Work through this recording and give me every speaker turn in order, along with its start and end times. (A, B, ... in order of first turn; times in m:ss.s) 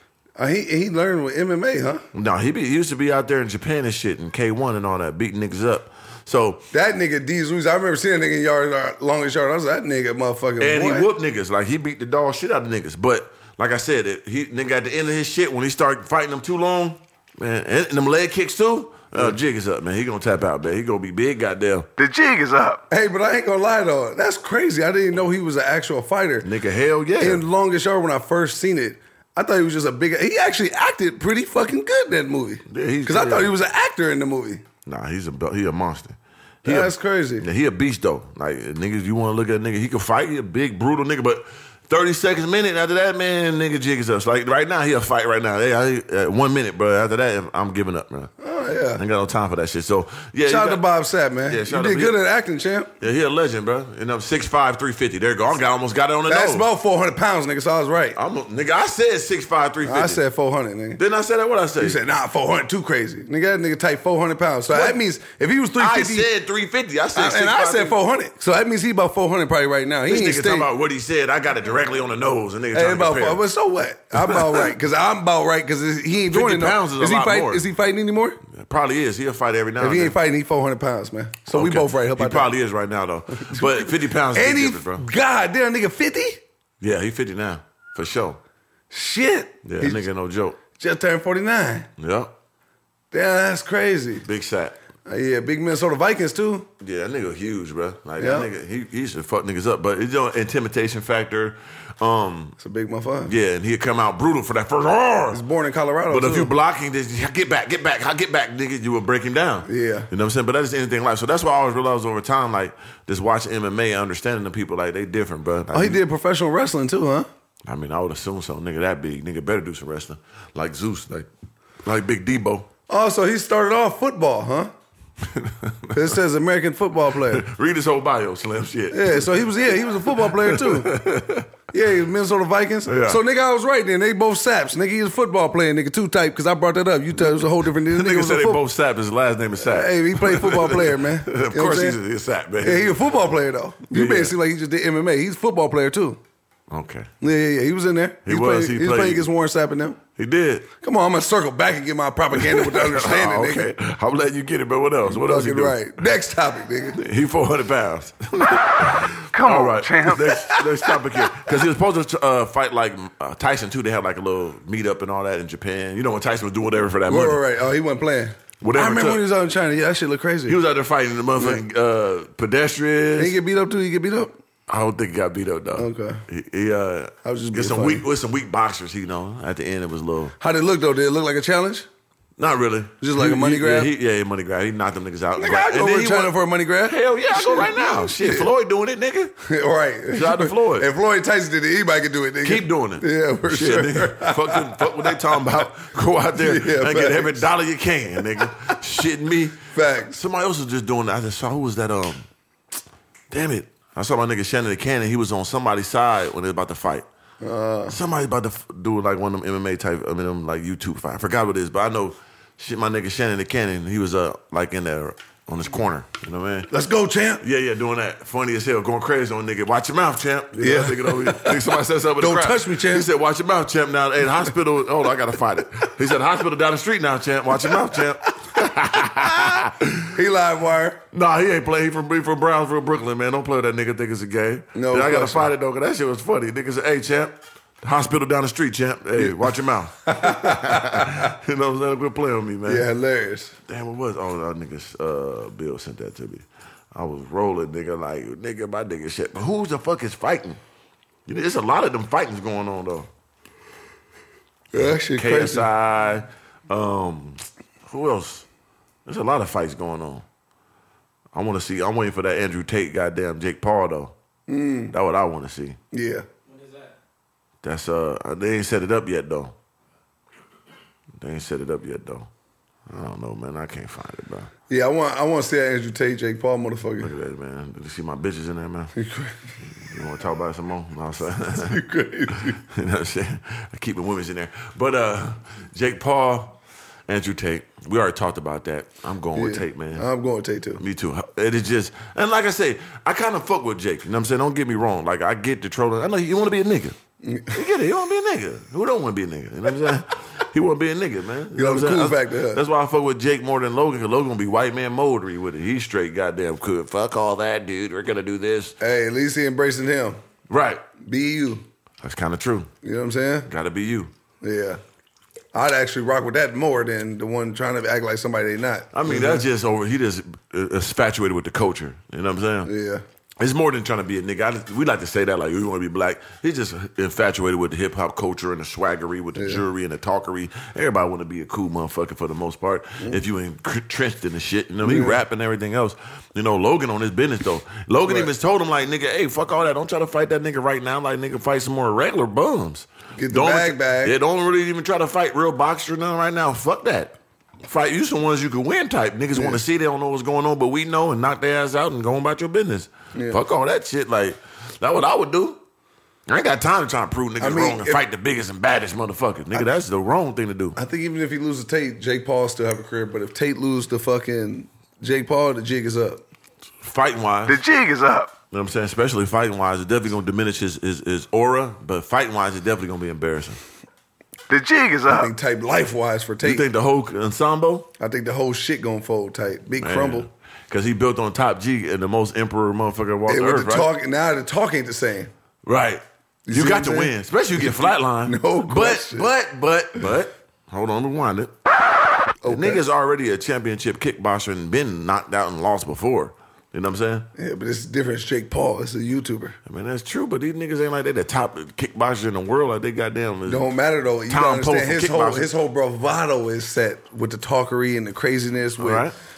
0:00.4-0:02.0 A
0:02.1-0:06.6 B
0:06.7-0:11.1 A
0:10.6-0:21.9 B
0:22.0-0:22.8 C
0:22.9-0:26.5 A
0:26.4-0:27.4 B
0:27.2-0:34.6 A
0:32.7-0:33.5 B
0:34.9-0:48.3 B
0:36.6-0:37.5 A
0:48.4-0:49.0 A
0:49.0-0:50.9 B
0:50.4-0:52.9 A
0:51.4-0:52.2 B
0:53.0-0:56.7 B
0:56.3-0:58.2 A
0:58.2-1:00.2 B
0:59.8-1:01.0 A
1:01.0-1:02.0 B
1:01.8-1:06.3 A
1:04.7-1:05.0 B
1:05.8-1:08.0 B
1:07.1-1:10.7 A
1:10.1-1:13.4 B
1:12.7-1:18.4 A
1:14.1-1:14.7 B
1:16.3-1:17.6 B
1:18.5-1:20.1 B
1:19.8-1:22.5 A
1:21.5-1:25.0 B
1:23.4-1:26.4 A
1:26.8-1:28.4 B
1:28.9-1:30.0 A
1:29.6-1:30.6 B
1:30.8-1:31.9 A
1:32.0-1:32.3 B
1:33.1-1:34.2 A
1:34.2-1:34.8 B
1:35.1-1:36.7 A
1:36.8-1:42.6 B
1:38.2-1:38.5 A
1:42.6-1:43.3 A
1:43.2-1:45.4 B
1:45.3-1:46.5 A
1:46.1-1:56.0 B
1:49.6-1:50.1 A
1:55.7-1:57.3 A
1:57.6-2:01.3 B
2:01.8-2:02.7 B
2:02.9-2:04.7 A
2:05.2-2:06.2 B
2:05.9-2:07.5 A
2:07.2-2:11.5 B
2:08.9-2:11.0 A
2:11.7-2:18.6 A
2:12.9-2:13.2 B
2:17.2-2:23.0 B
2:19.6-2:22.0 A
2:22.6-2:26.2 A
2:23.9-2:24.3 B
2:26.7-2:27.1 B
2:27.2-2:30.0 A
2:28.2-2:29.3 B
2:30.2-2:30.7 B
2:30.8-2:33.7 A
2:32.3-2:35.9 B
2:35.1-2:37.0 A
2:36.9-2:47.4 B
2:39.3-2:41.0 A
2:47.1-2:50.6 A
2:48.6-2:49.2 B
2:50.5-2:53.4 B
2:51.4-2:51.6 A
2:53.2-2:54.3 A
2:54.7-3:00.3 B
2:55.8-2:56.2 A
2:57.2-2:58.0 A
3:00.4-3:01.9 A
3:02.4-3:06.4 B
3:03.0-3:03.9 A
3:05.4-3:08.5 A
3:06.9-3:09.3 B
3:09.4-3:15.2 A
3:10.1-3:10.9 B
3:12.4-3:22.3 B
3:16.4-3:17.5 A
3:18.2-3:18.8 A
3:19.7-3:20.2 A
3:23.3-3:27.1 B
3:27.4-3:28.0 A
3:27.9-3:36.7 B
3:36.7-3:37.4 A
3:37.4-3:50.2 B
3:40.6-3:43.1 A
3:47.6-3:48.5 A
3:49.1-3:51.0 A
3:51.1-4:02.9 B
3:54.7-3:55.5 A
3:59.2-3:59.5 A
4:00.0-4:01.3 A
4:02.6-4:03.6 A
4:03.7-4:10.6 B
4:11.3-4:13.1 B
4:14.7-4:15.7 A
4:15.0-4:18.5 B
4:19.1-4:20.2 B
4:21.3-4:24.1 B
4:24.5-4:24.9 A
4:24.9-4:25.8 B
4:25.9-4:26.3 A
4:27.6-4:29.5 B
4:31.2-4:32.3 B
4:32.9-4:34.5 B
4:34.7-4:37.1 A
4:37.0-4:38.9 B
4:39.0-4:39.5 A
4:39.8-4:46.6 B
4:41.6-4:42.6 A
4:47.1-4:50.1 B
4:49.4-4:50.8 A
4:50.8-4:57.0 B
4:57.2-4:57.6 A
4:57.5-5:08.8 B
5:01.5-5:02.6 A
5:08.8-5:10.2 A
5:10.5-5:10.8 B
5:11.1-5:11.6 A
5:12.0-5:12.7 B
5:12.8-5:13.5 A
5:13.5-5:14.1 B
5:14.4-5:14.8 A
5:15.5-5:19.4 A
5:18.9-5:22.7 B
5:22.6-5:23.0 A
5:23.4-5:55.6 B
5:29.4-5:29.6 A
5:34.8-5:35.2 A
5:43.2-5:44.1 A
5:49.4-5:49.6 A
5:53.1-5:53.4 A
5:56.3-6:00.8 B
5:57.4-5:58.0 A
6:00.8-6:06.2 A
6:06.8-6:07.6 B
6:07.5-6:08.3 C
6:08.5-6:13.6 B
6:14.5-6:15.3 C
6:15.1-6:16.6 A
6:16.4-6:17.9 B
6:18.0-6:20.3 A
6:19.8-6:23.9 B
6:23.3-6:25.3 A
6:25.6-6:31.5 B
6:26.5-6:29.3 A
6:32.4-6:32.9 A
6:32.5-6:37.3 B
6:37.4-6:39.6 A
6:39.6-6:43.7 B
6:43.5-6:49.1 A
6:44.3-6:45.5 B
6:48.8-6:49.1 B